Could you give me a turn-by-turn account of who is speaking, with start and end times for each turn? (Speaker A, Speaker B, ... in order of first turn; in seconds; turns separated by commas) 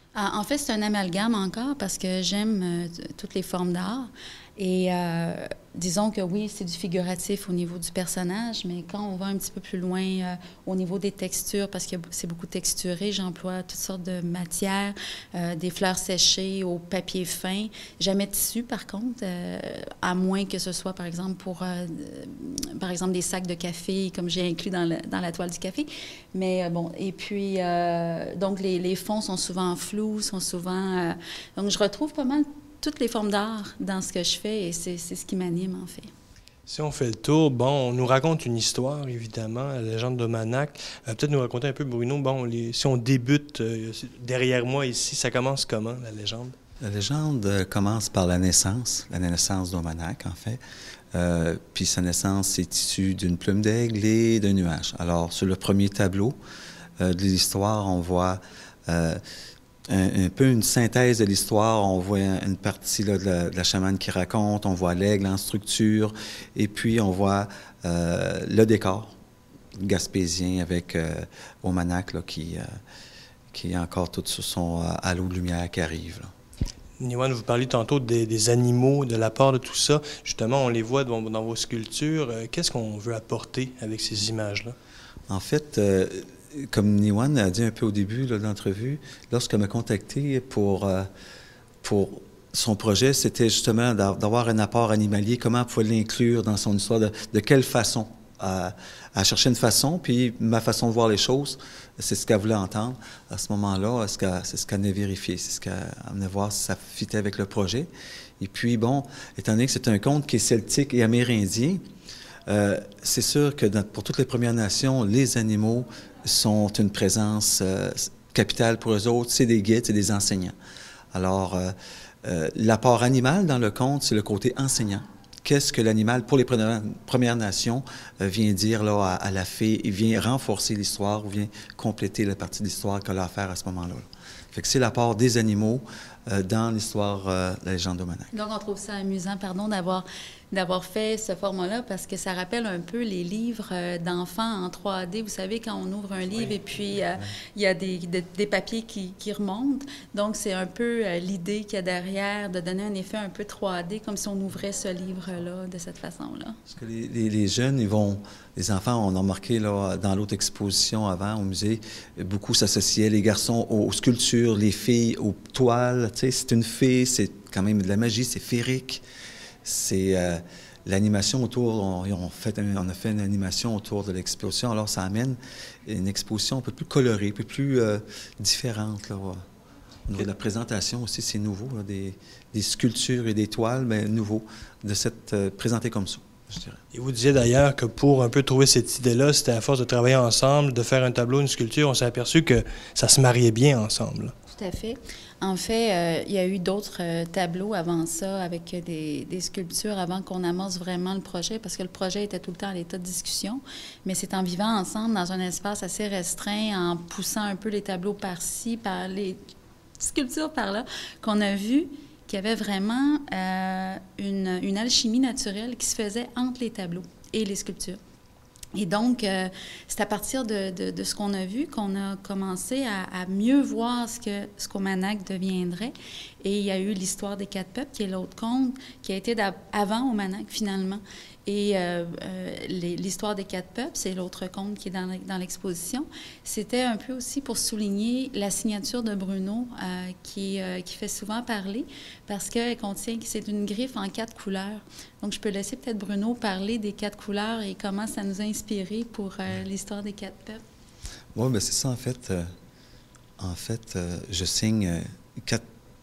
Speaker A: 0.1-36.1, Speaker B: 36.7-46.6, Speaker C: 46.8-50.6, Speaker C: 51.1-56.4, Speaker C: 57.0-59.2, Speaker C: 59.9-69.2, Speaker C: 69.8-72.7, Speaker C: 73.5-76.3, Speaker B: 77.0-84.8, Speaker C: 85.3-91.1, Speaker C: 91.8-111.8, Speaker C: 112.5-120.5, Speaker C: 121.1-138.3, Speaker A: 138.3-156.6, Speaker C: 156.7-169.0, Speaker C: 169.7-179.4, Speaker C: 180.1-186.8, Speaker B: 186.9-194.3, Speaker A: 194.5-209.4, Speaker A: 210.0-218.0, Speaker A: 218.7-250.6, Speaker C: 251.3-252.5, Speaker C: 253.4-255.6